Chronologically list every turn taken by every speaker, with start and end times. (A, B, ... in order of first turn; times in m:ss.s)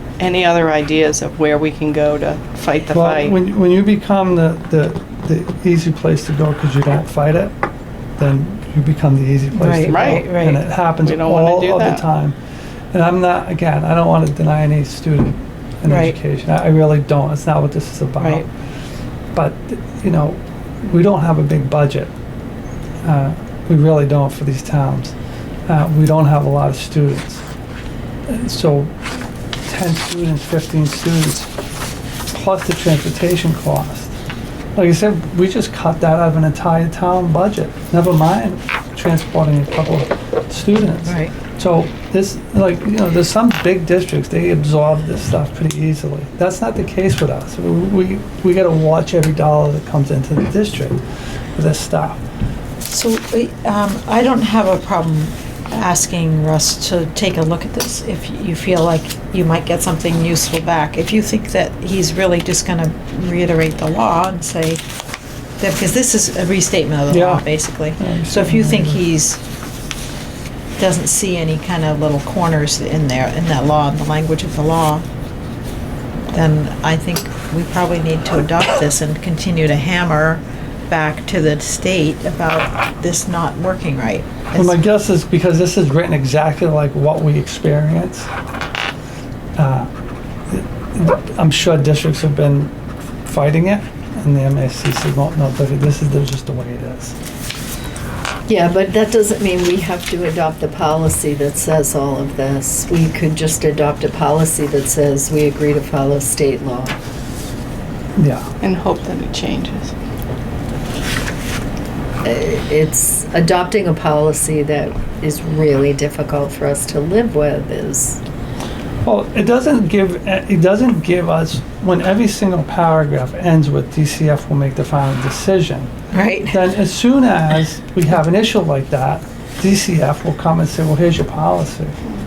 0:00.2-0:03.4 A
0:02.9-0:07.5 B
0:08.2-0:12.4 B
0:09.5-0:10.6 C
0:09.9-0:10.3 A
0:11.0-0:12.0 A
0:12.9-0:18.5 B
0:15.9-0:16.2 C
0:18.2-0:18.5 C
0:19.3-0:22.1 B
0:23.0-0:25.1 B
0:25.7-0:27.4 B
0:28.3-0:29.0 B
0:29.7-0:31.5 B
0:32.3-0:34.1 B
0:34.8-0:51.0 B
0:41.0-0:41.3 C
0:51.6-0:52.2 B
0:52.9-1:04.8 C
1:05.6-1:09.4 C
1:07.1-1:09.0 B
1:10.8-1:15.0 C
1:16.3-1:24.8 C
1:24.5-1:28.3 B
1:29.6-1:29.9 B
1:30.5-1:32.7 B
1:33.3-1:37.2 B
1:38.5-1:47.0 D
1:48.2-1:48.5 B
1:48.6-1:49.9 A
1:52.2-1:58.2 D
1:59.0-2:05.9 B
2:06.1-2:06.6 C
2:06.5-2:12.0 B